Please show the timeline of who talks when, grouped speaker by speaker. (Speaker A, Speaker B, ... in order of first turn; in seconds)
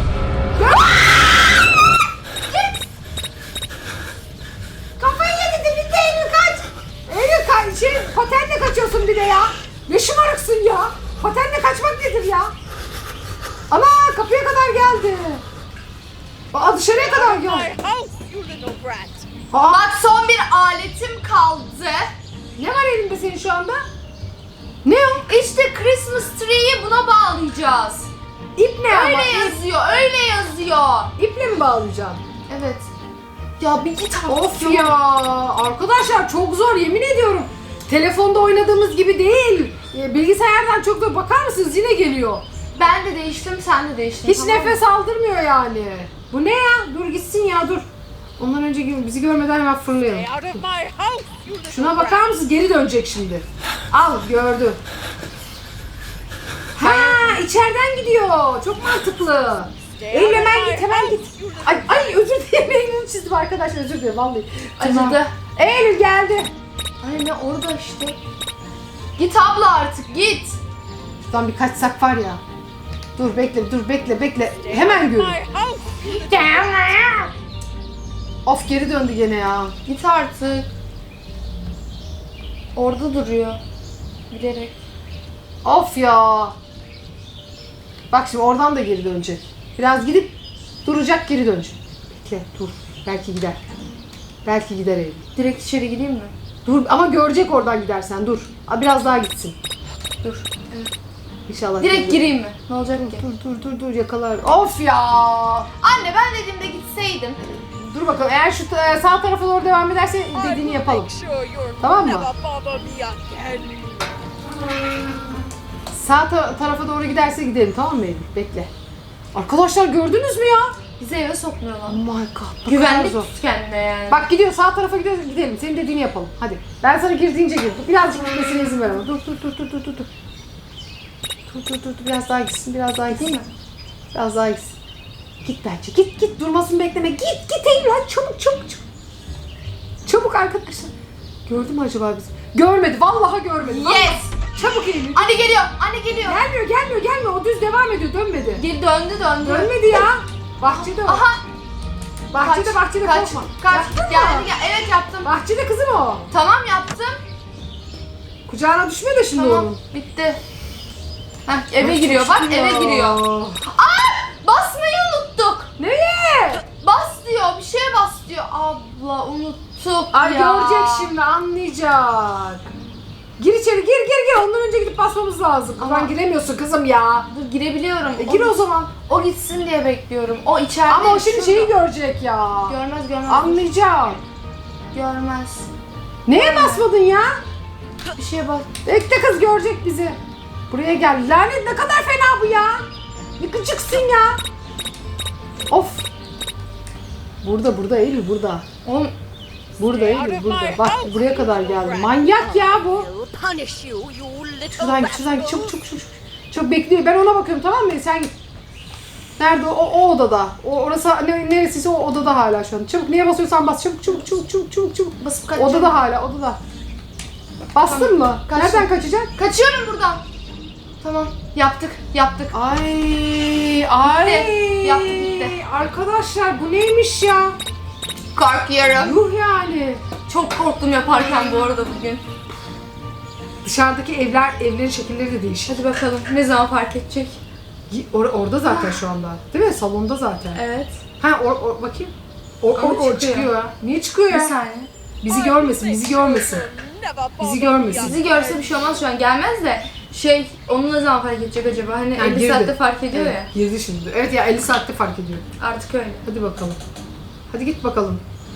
Speaker A: 0.6-1.0, 5.0-5.7, 7.1-12.5, 13.7-15.4, 16.5-17.7, 19.5-19.9, 22.6-23.8, 24.8-25.2, 28.6-29.6, 31.2-32.2, 34.3-42.4, 44.2-47.8, 48.4-50.6, 51.7-54.8, 56.8-66.5, 71.3-72.4, 73.2-75.4, 76.3-76.6, 78.4-79.7, 85.6-86.5, 88.1-93.6, 94.4-95.2, 96.6-99.6, 101.5-102.3, 103.0-105.7, 107.4-111.1, 111.8-112.3, 115.9-118.7, 119.3-120.7, 121.9-123.3, 124.1-130.1, 131.5-133.4, 134.1-134.7, 135.4-138.8, 140.0-140.9, 141.4-145.3, 146.2-148.6, 149.4-151.2, 152.3-154.5, 155.2-156.3, 158.5-159.8, 161.8-163.6, 165.8-166.6, 170.1-172.6, 173.4-177.3, 178.2-178.9, 180.9-182.8, 183.3-184.2, 186.2-187.4, 188.8-190.2, 190.7-192.8, 193.4-194.4, 195.7-196.1, 197.4-198.6, 199.8-203.1, 204.7-208.3, 209.4-216.6, 217.7-219.3, 222.5-227.6, 228.9-230.0, 233.6-235.7, 237.9-240.6, 241.2-244.5, 245.2-246.7, 247.4-248.2, 252.1-255.4, 256.2-256.8, 257.5-258.2
Speaker B: 2.5-2.8, 5.6-6.6, 19.7-22.1, 25.2-28.1, 28.9-31.1, 32.5-32.9, 33.6-34.9, 42.7-44.8, 56.8-57.4, 64.8-65.3, 67.0-68.2, 69.2-70.6, 76.0-77.3, 79.8-80.7, 82.7-83.6, 84.3-84.8, 95.3-96.3, 100.2-100.9, 101.8-103.2, 105.8-107.4, 121.0-122.0, 122.7-124.2, 133.1-133.5, 143.6-144.3, 145.1-146.4, 148.5-150.1, 150.6-151.4, 152.4-155.3, 156.3-157.2, 159.3-160.4, 161.4-165.7, 166.6-171.1, 175.8-176.1, 177.3-181.7, 182.7-183.7, 184.9-185.7, 186.3-186.8, 188.1-188.7, 198.8-199.1, 215.2-216.0, 217.8-220.2, 221.0-222.5, 224.0-225.6, 228.3-229.2, 230.2-232.2, 235.7-237.4, 238.7-239.0, 240.5-241.0, 242.8-243.5, 244.3-244.9, 247.9-253.5, 255.6-256.2
Speaker C: 16.9-19.3, 50.2-52.3, 60.0-62.2, 74.7-76.6, 110.3-114.1, 200.0-205.6, 245.3-248.8